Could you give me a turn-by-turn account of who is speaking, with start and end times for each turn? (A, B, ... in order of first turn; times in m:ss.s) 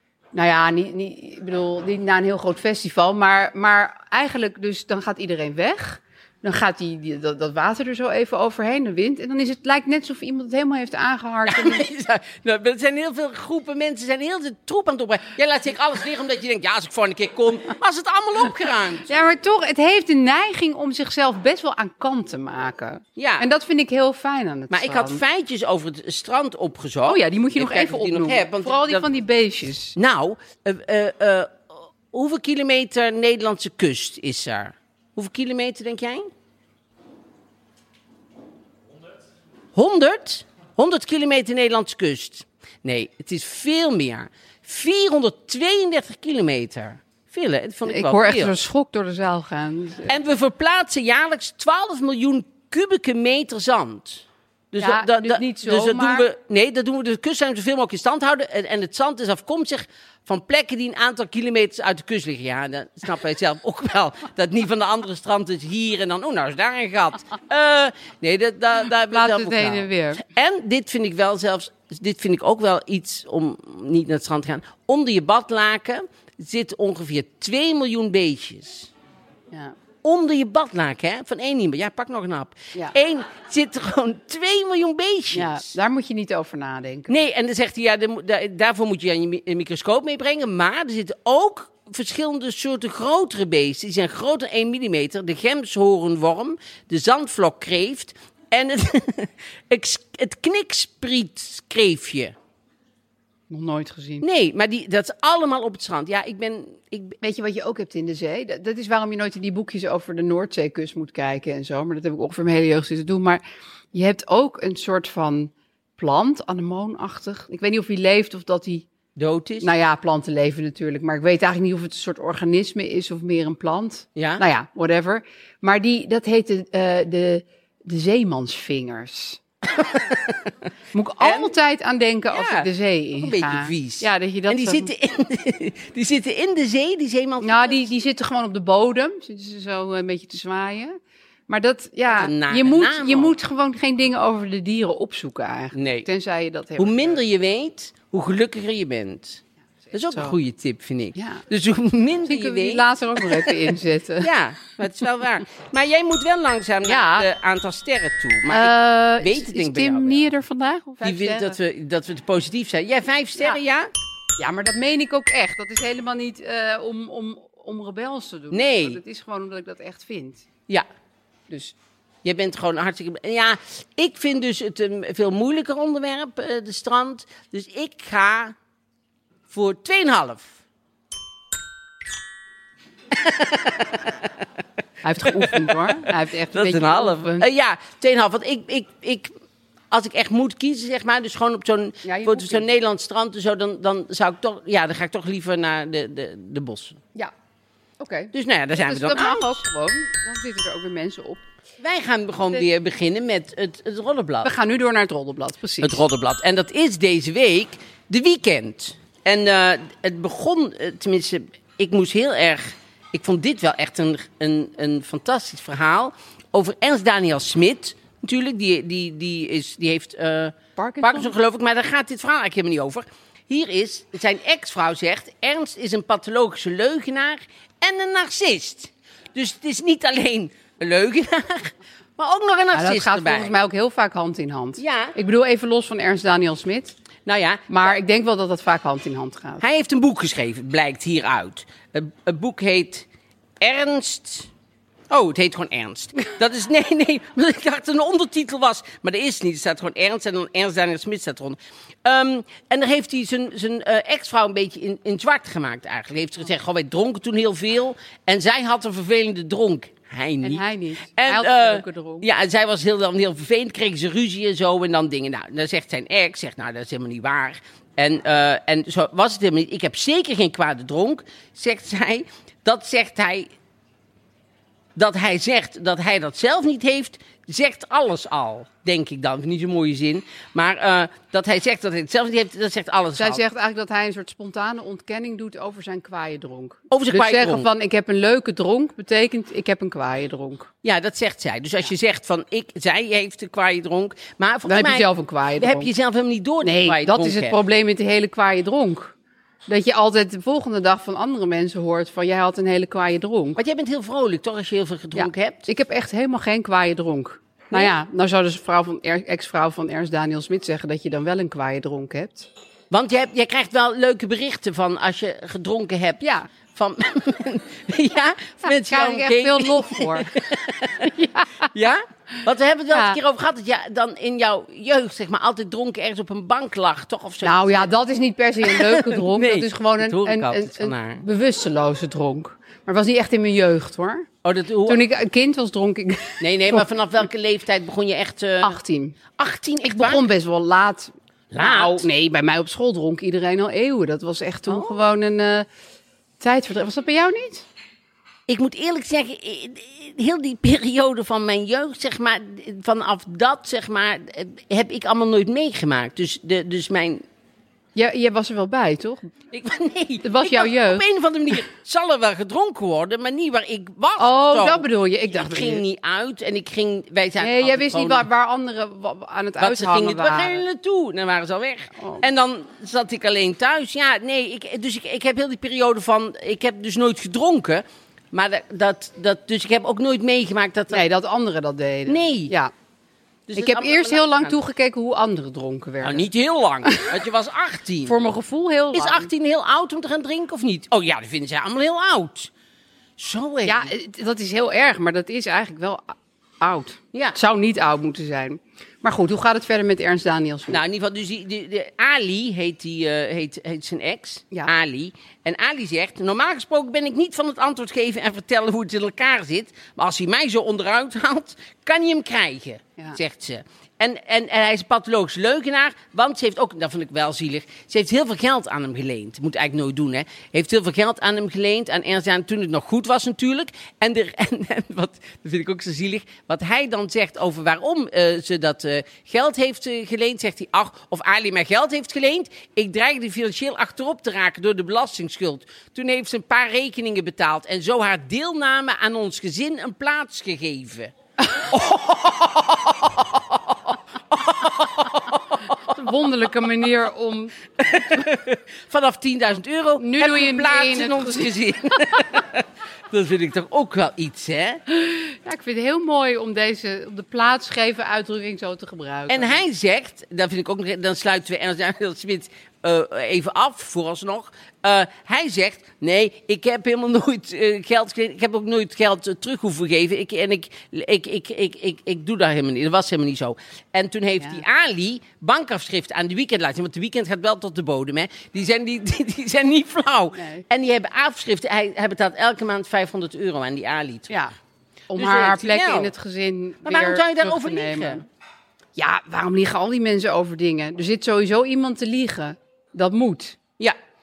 0:00.3-0:11.8 A
0:11.5-0:19.1 B
0:19.1-0:25.2 A
0:23.2-0:23.5 B
0:24.7-0:29.1 B
0:27.1-0:30.0 A
0:30.0-0:36.3 B
0:39.8-0:48.5 B
0:47.9-0:50.1 A
0:50.1-1:18.9 B
0:54.8-0:56.3 A
1:09.1-1:10.2 A
1:20.0-1:25.7 B
1:25.3-1:27.2 A
1:27.1-1:42.3 B
1:43.5-1:44.2 A
1:44.2-1:47.2 B
1:47.2-1:53.4 A
1:53.9-1:58.9 A
1:59.2-1:59.7 B
1:59.6-2:09.4 A
2:04.2-2:04.4 B
2:09.7-2:10.5 B
2:10.9-2:14.9 A
2:11.2-2:11.5 B
2:12.3-2:17.9 B
2:17.4-2:27.2 A
2:22.2-2:23.3 B
2:25.7-2:26.1 B
2:26.8-2:29.4 B
2:29.9-2:30.4 A
2:29.9-2:33.6 B
2:31.2-2:31.4 A
2:32.3-2:34.3 A
2:34.2-2:40.3 B
2:36.8-2:37.3 A
2:38.5-2:41.6 A
2:41.0-2:43.9 B
2:44.4-2:50.4 A
2:48.5-2:49.0 B
2:51.5-2:51.8 A
2:52.2-2:58.6 B
2:59.5-3:00.6 B
3:03.1-3:04.3 B
3:05.0-3:07.5 A
3:05.3-3:09.3 B
3:09.9-3:17.0 B
3:12.0-3:12.7 A
3:18.0-3:21.4 A
3:18.3-3:19.6 B
3:21.8-3:24.5 B
3:24.4-3:26.0 A
3:25.8-3:53.5 B
3:40.8-3:41.3 A
3:52.7-3:57.0 A
3:54.8-3:55.2 B
3:57.3-3:57.9 B
3:57.7-3:59.6 A
3:59.6-4:03.1 B
4:03.6-4:04.5 B
4:05.1-4:20.6 B
4:20.4-4:22.3 A
4:21.2-4:33.5 B
4:35.0-4:43.4 B
4:43.2-4:50.7 A
4:46.9-4:47.7 B
4:50.8-4:57.6 B
4:54.7-4:55.9 A
4:56.6-4:59.1 A
4:59.7-5:03.6 A
5:03.6-5:05.7 B
5:05.2-5:12.5 A
5:12.9-5:27.9 B
5:16.2-5:16.5 A
5:18.6-5:20.3 A
5:21.2-5:21.7 A
5:22.9-5:23.2 A
5:27.4-5:34.3 A
5:28.6-5:31.2 B
5:34.4-5:35.0 B
5:34.9-5:36.9 A
5:36.4-5:38.8 B
5:38.6-5:39.2 A
5:39.4-5:40.3 B
5:39.8-5:45.7 A
5:41.5-5:42.0 B
5:44.7-5:45.0 B
5:46.4-5:47.7 A
5:48.5-5:57.2 B
5:58.0-5:59.3 A
5:59.5-6:08.3 B
6:00.2-6:01.0 A
6:04.2-6:05.8 A
6:07.4-6:10.6 A
6:09.6-6:21.0 B
6:12.0-6:12.2 A
6:20.9-6:22.7 A
6:22.1-6:22.5 B
6:23.5-6:24.6 B
6:23.5-6:26.2 A
6:26.0-6:28.2 B
6:28.1-6:29.3 A
6:28.9-6:32.5 B
6:33.2-6:33.9 B
6:33.7-6:40.8 A
6:40.7-7:21.1 B
7:21.7-7:25.9 B
7:25.9-7:27.5 A
7:27.8-7:34.8 B
7:30.0-7:31.5 A
7:34.9-7:39.6 A
7:39.3-8:04.4 B
8:00.4-8:00.6 A
8:05.1-8:08.2 A
8:05.2-8:06.1 B
8:06.8-8:08.2 B
8:09.0-8:13.6 A